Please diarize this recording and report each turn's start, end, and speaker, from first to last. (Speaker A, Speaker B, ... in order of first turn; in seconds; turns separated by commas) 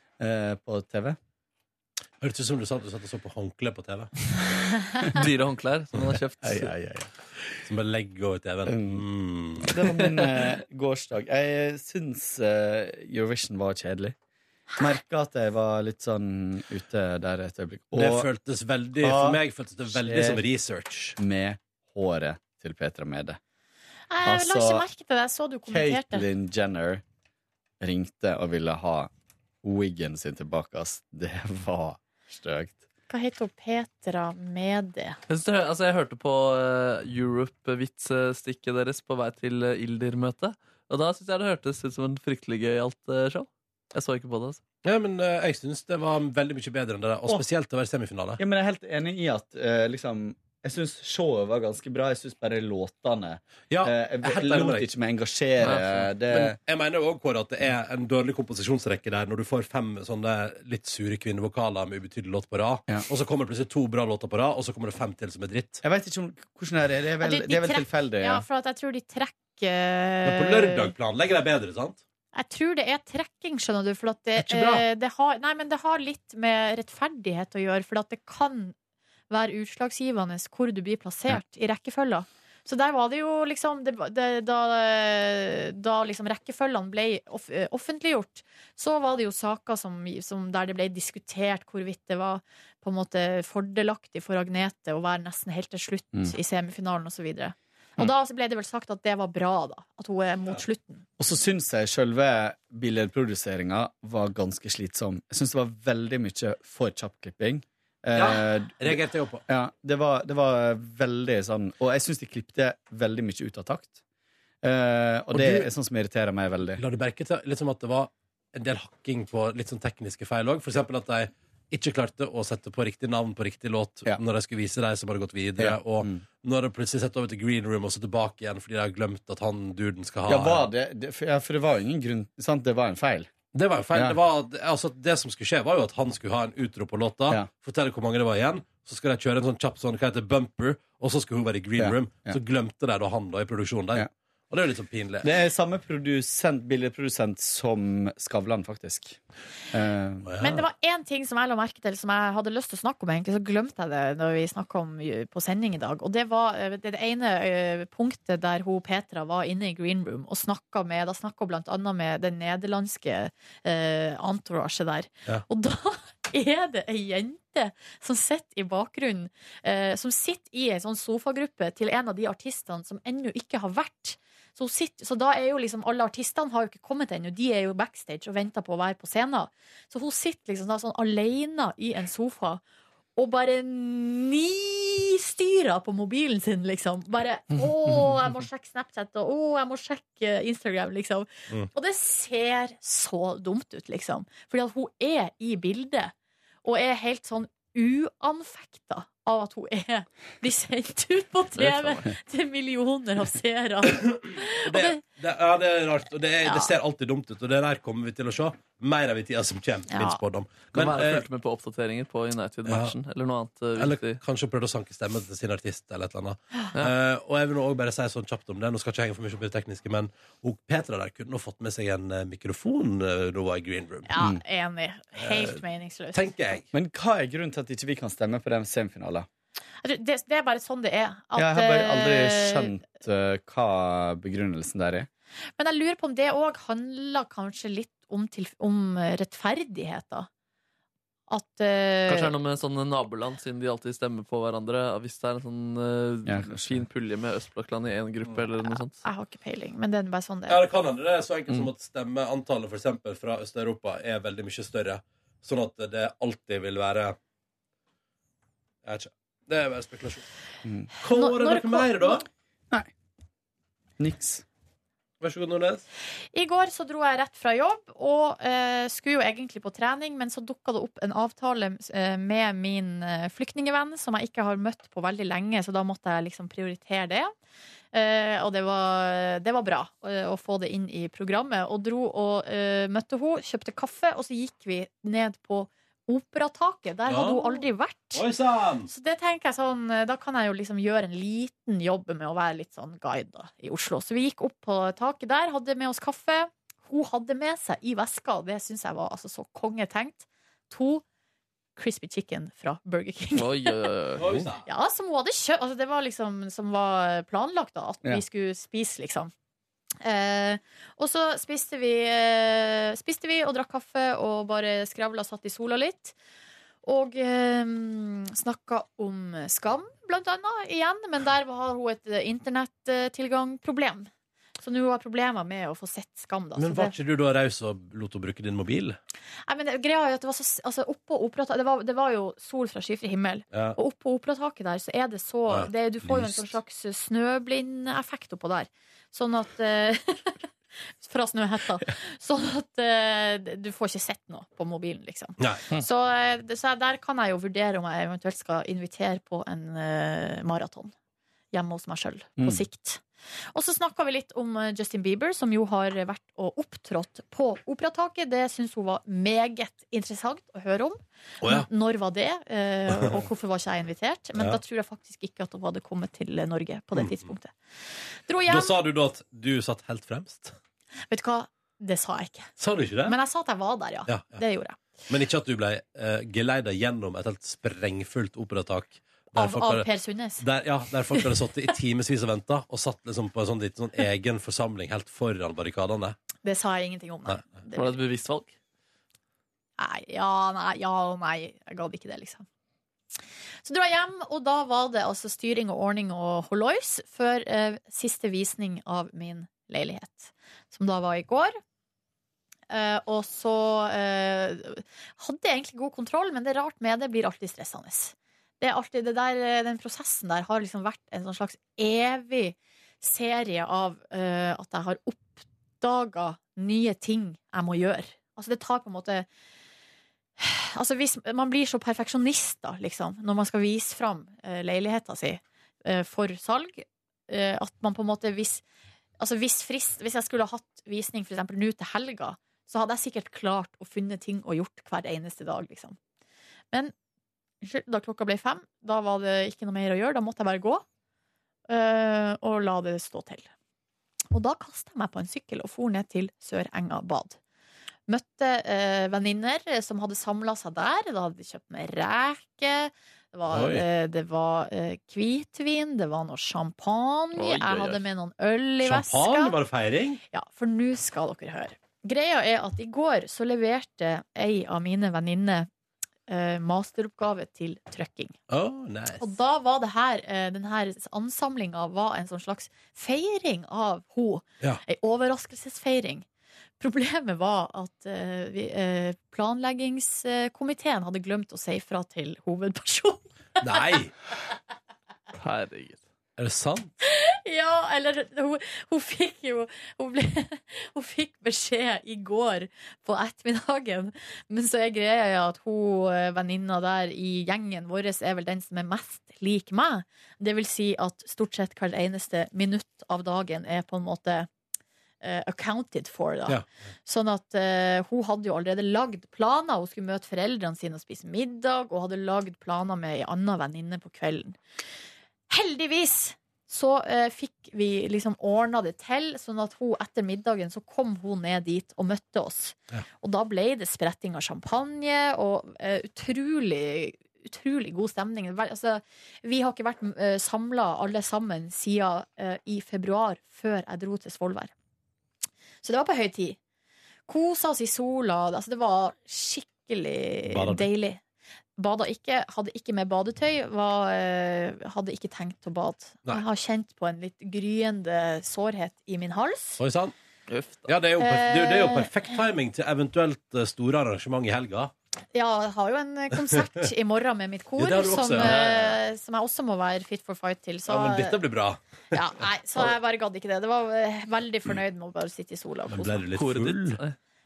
Speaker A: 0.2-1.2, Speaker B: 2.2-4.1, Speaker C: 5.1-6.7, Speaker A: 6.4-7.6, Speaker B: 7.6-9.7, Speaker A: 8.7-9.1, Speaker A: 9.6-14.1, Speaker A: 14.8-18.3, Speaker B: 17.9-21.2, Speaker A: 19.0-20.4, Speaker A: 21.2-23.4, Speaker D: 24.1-26.2, Speaker A: 24.2-24.8, Speaker A: 25.7-27.0, Speaker A: 27.8-29.1, Speaker A: 29.6-32.8, Speaker D: 33.1-35.2, Speaker C: 35.3-44.6, Speaker B: 44.8-48.4, Speaker A: 48.4-56.5, Speaker B: 53.7-54.9, Speaker C: 55.6-56.1, Speaker B: 56.3-65.8, Speaker A: 65.8-68.4, Speaker D: 67.2-70.9, Speaker B: 70.2-72.0, Speaker D: 72.3-78.7, Speaker B: 74.4-74.8, Speaker D: 79.3-101.0, Speaker A: 101.2-114.0, Speaker B: 108.1-109.4, Speaker A: 114.6-116.8, Speaker B: 115.3-115.7, Speaker B: 116.8-130.6, Speaker A: 125.6-126.2, Speaker A: 130.3-133.3, Speaker B: 133.5-145.3, Speaker A: 141.8-142.4, Speaker A: 145.2-149.2, Speaker A: 149.7-150.4, Speaker B: 150.2-150.6, Speaker D: 150.4-182.6, Speaker D: 183.2-196.1, Speaker D: 196.6-205.0, Speaker C: 201.6-202.1, Speaker B: 203.9-211.2, Speaker D: 206.4-206.7, Speaker D: 209.9-210.2, Speaker C: 210.7-214.2, Speaker B: 212.7-212.9, Speaker B: 213.7-224.2, Speaker D: 224.1-226.2, Speaker B: 225.2-225.6, Speaker B: 226.1-226.7, Speaker A: 226.7-229.3, Speaker D: 229.8-232.8, Speaker A: 231.3-235.1, Speaker D: 235.6-240.3, Speaker D: 241.3-242.3, Speaker C: 242.1-249.0, Speaker A: 246.2-246.8, Speaker D: 248.6-250.6, Speaker B: 250.5-257.2, Speaker B: 258.8-260.3, Speaker A: 260.6-260.9, Speaker B: 261.0-262.3, Speaker D: 261.0-262.2, Speaker A: 264.0-264.4, Speaker B: 265.2-265.8, Speaker D: 266.3-277.3, Speaker D: 277.9-288.2, Speaker B: 287.1-288.9, Speaker D: 288.9-301.0, Speaker D: 301.8-303.9, Speaker C: 303.4-304.3, Speaker B: 304.2-304.6, Speaker D: 304.6-309.3, Speaker D: 310.0-316.1, Speaker D: 316.8-324.1, Speaker D: 324.6-326.9, Speaker B: 326.6-329.0, Speaker D: 329.5-340.4, Speaker B: 333.5-333.8, Speaker B: 335.5-336.6, Speaker D: 341.0-350.9, Speaker B: 345.4-345.6, Speaker D: 351.5-367.5, Speaker A: 352.4-352.6, Speaker B: 361.4-361.7, Speaker B: 362.9-363.2, Speaker B: 366.9-367.3, Speaker D: 368.3-368.7, Speaker B: 368.5-370.6, Speaker D: 371.1-372.5, Speaker B: 372.6-373.2, Speaker D: 373.0-374.8, Speaker B: 374.1-374.4, Speaker B: 375.1-379.9, Speaker D: 379.3-380.4, Speaker B: 380.4-386.2, Speaker D: 386.4-387.9, Speaker C: 387.7-388.5, Speaker D: 389.8-392.4, Speaker D: 393.6-401.6, Speaker D: 402.7-419.3, Speaker D: 420.4-428.6, Speaker D: 429.2-436.0, Speaker D: 437.6-440.8, Speaker D: 441.7-443.5, Speaker D: 444.3-447.4, Speaker D: 448.1-459.5, Speaker B: 453.5-453.8, Speaker C: 457.4-458.0, Speaker B: 458.8-460.2, Speaker D: 460.3-465.7, Speaker D: 466.3-468.4, Speaker B: 468.5-469.3, Speaker D: 469.2-476.2, Speaker D: 476.8-483.9, Speaker B: 483.6-484.1, Speaker C: 485.3-486.0, Speaker B: 486.4-486.9, Speaker D: 487.0-504.5, Speaker D: 505.2-514.6, Speaker D: 515.5-534.7, Speaker D: 535.8-536.6, Speaker D: 537.3-541.2, Speaker B: 540.5-540.9, Speaker D: 541.8-549.8, Speaker B: 549.8-550.1, Speaker C: 550.5-550.9, Speaker B: 550.9-554.9, Speaker D: 551.2-552.1, Speaker D: 555.3-561.4, Speaker B: 557.8-558.7, Speaker C: 558.4-559.0, Speaker B: 560.9-562.9, Speaker D: 562.1-566.2, Speaker B: 565.9-567.0, Speaker C: 566.3-567.1